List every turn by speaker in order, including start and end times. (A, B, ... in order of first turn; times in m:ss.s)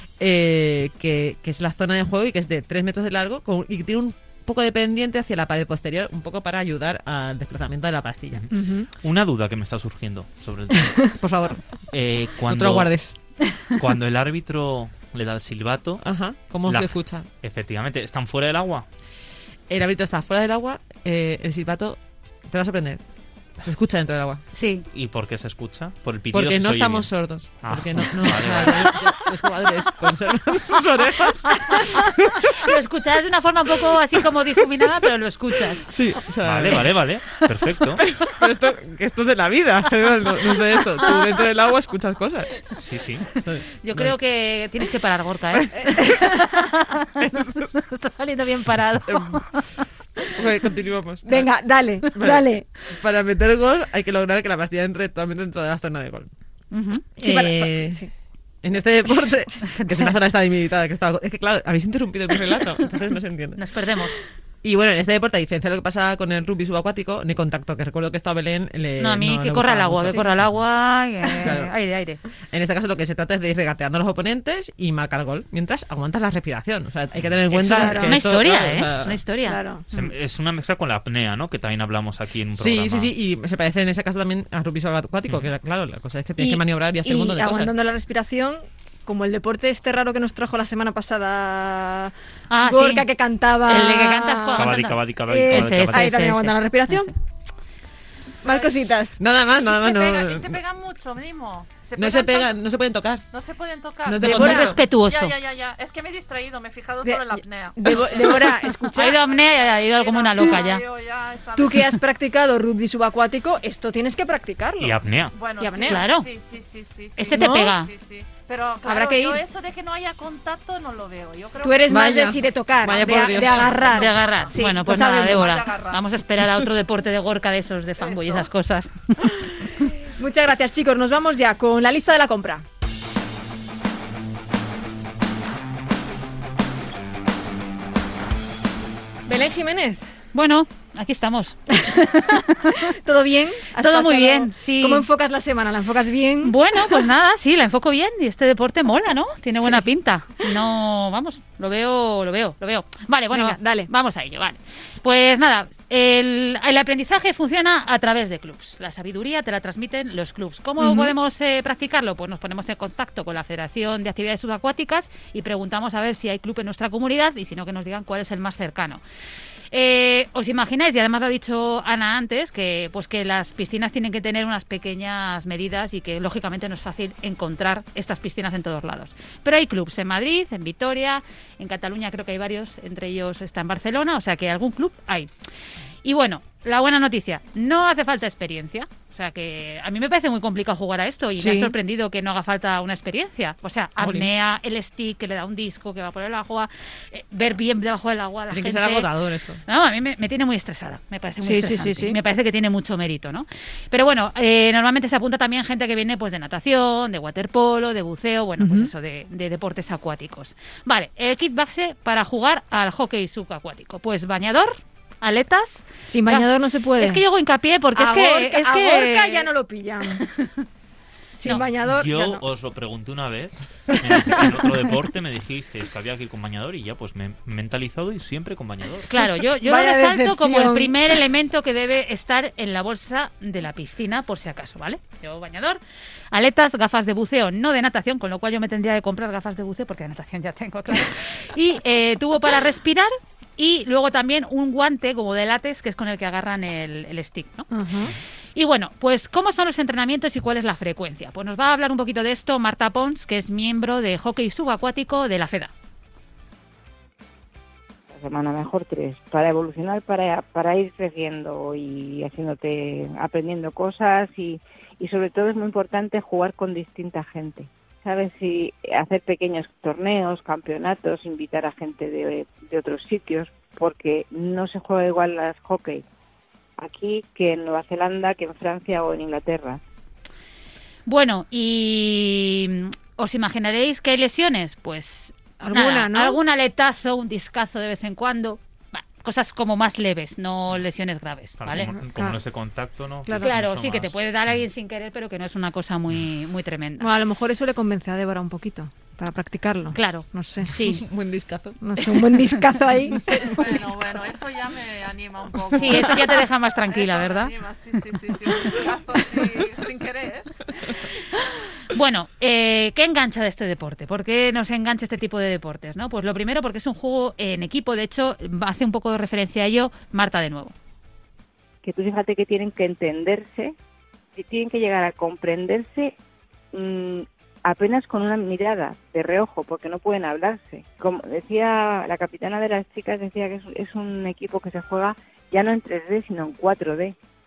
0:00.2-0:08.5 A
0:08.5-0:08.9 B
0:09.0-0:11.0 C
0:11.0-0:11.8 A
0:11.9-0:12.9 C
0:12.4-0:13.1 A
0:13.7-0:16.0 C
0:16.0-0:17.3 A
0:16.6-0:18.8 C
0:19.7-0:23.0 A
0:23.6-0:24.4 A
0:24.5-0:24.9 D
0:24.9-0:29.0 C
0:26.3-0:32.7 A
0:31.5-0:35.9 D
0:35.8-0:37.0 A
0:36.4-0:38.0 C
0:38.0-0:42.7 A
0:42.7-0:43.3 C
0:43.4-0:44.1 A
0:43.8-0:49.8 D
0:45.7-0:46.5 B
0:47.2-0:47.7 A
0:49.1-0:49.4 A
0:50.3-0:51.5 A
0:51.2-0:52.6 B
0:52.1-0:56.3 A
0:56.7-0:57.0 D
0:57.2-0:58.0 A
0:57.2-0:58.1 B
0:58.6-1:03.6 A
1:03.6-1:04.2 D
1:04.6-1:10.3 A
1:09.0-1:12.2 D
1:11.3-1:11.7 A
1:12.5-1:19.2 A
1:17.2-1:18.1 C
1:17.6-1:18.2 B
1:18.0-1:19.6 D
1:19.4-1:19.8 B
1:19.9-1:23.1 C
1:22.6-1:27.7 A
1:26.4-1:34.7 B
1:32.5-1:33.1 D
1:33.6-1:37.1 D
1:34.5-1:36.1 C
1:35.3-1:37.1 B
1:38.4-1:39.2 B
1:38.4-1:38.8 E
1:39.2-1:40.6 A
1:39.5-1:42.6 E
1:42.0-1:43.2 A
1:43.3-1:52.0 E
1:44.0-1:44.8 A
1:44.2-1:45.3 D
1:44.2-1:44.8 B
1:47.0-1:49.2 B
1:48.8-1:50.8 D
1:51.6-1:55.0 B
1:54.8-1:55.3 C
1:55.3-2:02.4 E
1:55.6-1:56.1 B
1:55.8-1:56.3 D
1:57.2-1:57.9 D
1:57.3-1:57.7 B
1:58.8-1:59.4 B
2:01.6-2:05.6 B
2:01.9-2:03.8 A
2:02.9-2:06.1 E
2:03.9-2:09.3 D
2:08.0-2:08.5 E
2:09.2-2:12.6 B
2:19.2-2:20.0 B
2:20.3-2:22.9 D
2:22.7-2:27.0 B
2:23.8-2:25.1 D
2:26.4-2:49.0 D
2:29.5-2:29.9 B
2:33.3-2:33.9 B
2:40.8-2:41.1 B
2:49.7-3:05.3 D
3:06.0-3:19.1 D
3:11.3-3:11.7 B
3:14.0-3:14.3 A
3:18.5-3:19.6 A
3:19.6-3:39.5 D
3:21.4-3:22.2 B
3:28.6-3:28.9 B
3:36.1-3:37.2 B
3:37.9-3:40.2 B
3:41.4-3:42.4 B
3:41.8-3:49.1 C
3:49.1-3:55.8 D
3:49.6-3:51.1 B
3:56.3-4:07.7 D
4:07.7-4:08.1 B
4:08.5-4:15.7 D
4:18.1-4:36.0 F
4:36.8-4:39.8 F
4:41.0-4:51.9 D
4:45.6-4:46.4 B
4:51.6-4:54.1 C
4:52.0-4:52.4 B
4:53.2-4:53.5 B
4:53.4-4:57.1 D
4:57.0-5:00.7 B
4:59.9-5:01.0 D
5:00.8-5:02.3 A
5:01.8-5:04.0 B
5:03.2-5:10.6 E
5:05.7-5:07.5 D
5:11.9-5:20.7 D
5:21.8-5:23.7 F
5:24.4-5:26.1 F
5:26.7-5:37.2 F